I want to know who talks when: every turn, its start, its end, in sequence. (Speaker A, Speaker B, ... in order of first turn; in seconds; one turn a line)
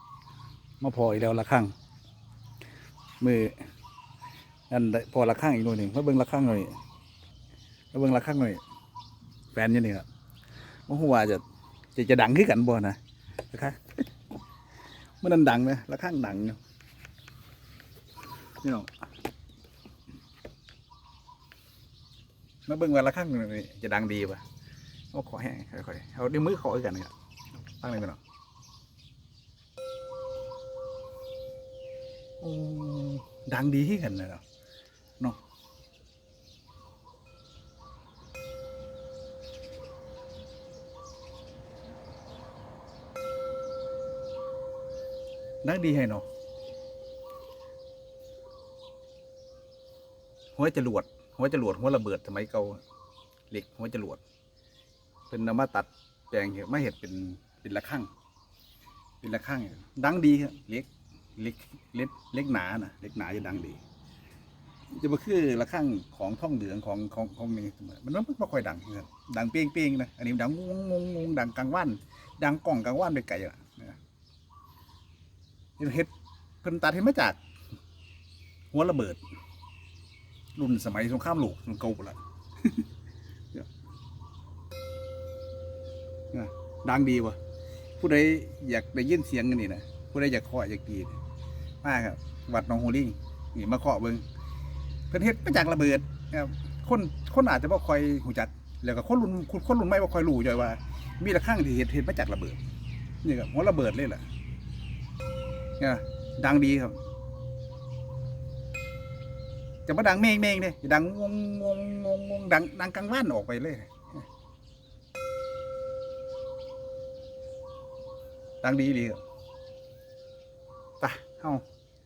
Speaker A: 0.8-1.7
Speaker A: 3.2-3.5
Speaker A: 4.7-6.7
Speaker A: 7.9-8.6
Speaker A: 9.5-10.1
Speaker A: 10.9-11.4
Speaker A: 11.9-13.0
Speaker A: 13.5-14.0
Speaker A: 15.2-16.6
Speaker A: 18.6-18.9
Speaker A: 22.7-24.4
Speaker A: 25.1-27.1
Speaker A: 27.8-28.2
Speaker A: 32.4-34.4
Speaker A: 45.6-46.2
Speaker A: 50.5-52.8
Speaker A: 53.5-54.2
Speaker A: 55.3-58.1
Speaker A: 59.2-63.8
Speaker A: 64.9-74.0
Speaker A: 75.8-76.1
Speaker A: 76.6-77.4
Speaker A: 78.7-79.2
Speaker A: 80.6-82.8
Speaker A: 86.3-87.4
Speaker A: 88.0-91.2
Speaker A: 91.8-94.2
Speaker A: 95.1-102.6
Speaker A: 103.2-104.2
Speaker A: 105.8-107.0
Speaker A: 109.8-114.2
Speaker A: 118.6-119.2
Speaker A: 121.0-121.6